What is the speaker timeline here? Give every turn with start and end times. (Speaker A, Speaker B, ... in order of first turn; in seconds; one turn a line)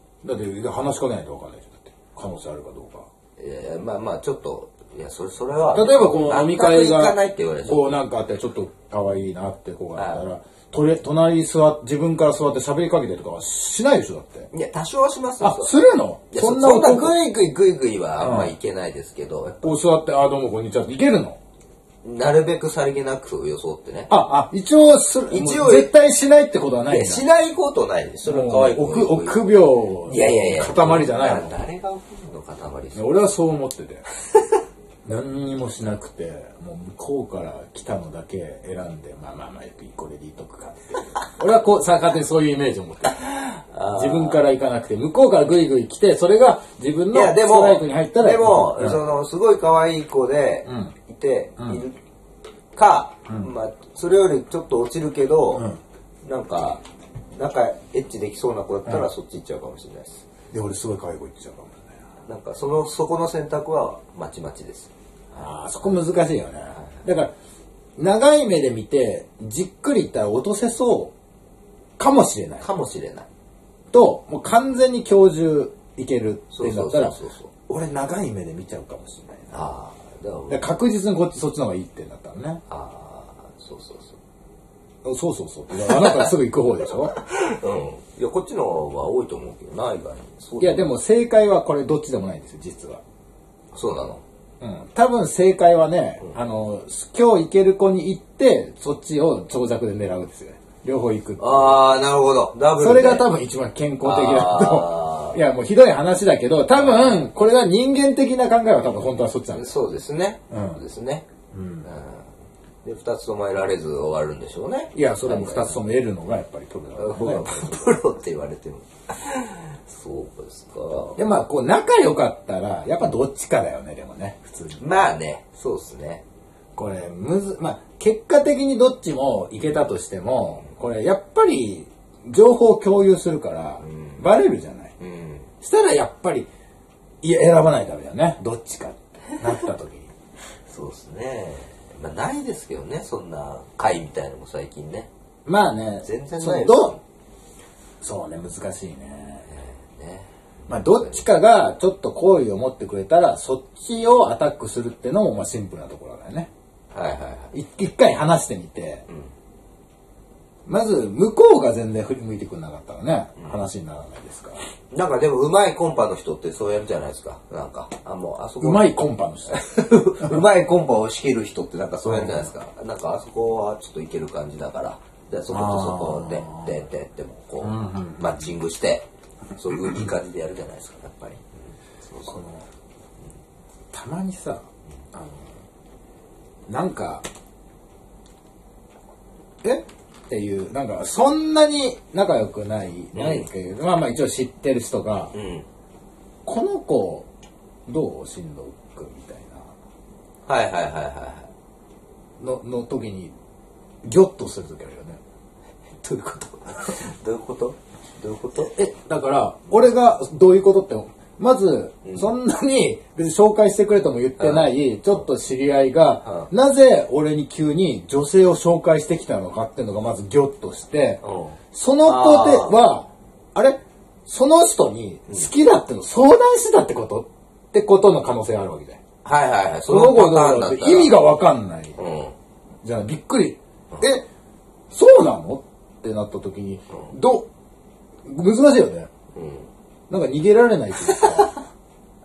Speaker A: 0.2-3.0
Speaker B: 3.4-7.9
Speaker A: 5.7-14.5
Speaker B: 9.9-10.2
Speaker B: 14.5-15.7
Speaker A: 15.4-17.1
Speaker B: 16.3-19.7
Speaker A: 18.2-18.5
Speaker A: 19.6-21.4
Speaker B: 22.0-24.1
Speaker A: 24.1-27.2
Speaker B: 25.3-25.9
Speaker B: 26.9-33.0
Speaker A: 28.2-31.6
Speaker A: 32.9-34.0
Speaker A: 35.0-43.2
Speaker B: 43.5-44.4
Speaker A: 43.9-49.0
Speaker B: 47.1-52.0
Speaker A: 50.6-50.9
Speaker B: 52.7-55.7
Speaker A: 55.5-55.8
Speaker B: 56.2-56.8
Speaker B: 57.4-60.2
Speaker A: 60.5-61.9
Speaker B: 62.2-65.4
Speaker A: 65.4-67.3
Speaker A: 68.0-71.1
Speaker A: 72.0-72.7
Speaker B: 72.6-73.3
Speaker A: 73.9-77.2
Speaker B: 76.5-77.5
Speaker A: 77.7-79.5
Speaker B: 79.5-80.7
Speaker A: 80.5-82.6
Speaker B: 82.7-84.2
Speaker A: 85.0-87.1
Speaker B: 85.8-86.3
Speaker B: 87.1-90.9
Speaker A: 90.6-93.0
Speaker B: 93.7-94.2
Speaker A: 94.6-101.9
Speaker B: 101.4-103.2
Speaker A: 102.8-109.7
Speaker B: 104.0-105.4
Speaker B: 106.7-107.2
Speaker B: 109.5-111.3
Speaker A: 110.5-110.8
Speaker A: 111.5-111.9
Speaker B: 111.8-112.2
Speaker B: 112.8-115.8
Speaker A: 114.9-117.8
Speaker B: 117.0-121.2
Speaker A: 121.2-124.8
Speaker B: 124.8-126.2
Speaker A: 126.7-134.9
Speaker B: 133.8-134.2
Speaker B: 135.0-135.5
Speaker A: 135.6-136.5
Speaker A: 137.2-140.1
Speaker B: 140.7-145.1
Speaker A: 145.4-146.9
Speaker B: 146.0-147.0
Speaker A: 148.0-149.4
Speaker B: 149.4-151.2
Speaker A: 150.7-156.5
Speaker B: 156.9-157.5
Speaker A: 157.5-159.1
Speaker A: 160.7-164.6
Speaker B: 164.9-169.0
Speaker A: 168.6-169.6
Speaker B: 169.5-179.1
Speaker A: 172.1-172.5
Speaker A: 175.5-176.7
Speaker A: 177.6-178.5
Speaker B: 179.6-181.4
Speaker B: 182.0-182.3
Speaker A: 182.2-182.7
Speaker A: 183.9-185.5
Speaker A: 186.7-187.2
Speaker A: 189.6-195.3
Speaker B: 193.1-193.5
Speaker B: 195.3-195.7
Speaker A: 196.4-197.3
Speaker A: 197.9-199.7
Speaker B: 200.5-201.5
Speaker A: 202.4-203.3
Speaker A: 204.0-205.2
Speaker B: 206.0-208.7
Speaker A: 208.6-221.2
Speaker B: 212.0-212.3
Speaker B: 214.4-214.7
Speaker B: 216.2-216.5
Speaker B: 221.2-222.8
Speaker A: 221.7-229.0
Speaker B: 229.2-231.2
Speaker A: 229.9-231.9
Speaker B: 232.0-232.3
Speaker A: 232.8-234.2
Speaker A: 234.9-237.5
Speaker A: 238.2-239.1
Speaker B: 239.3-239.7
Speaker A: 240.1-241.6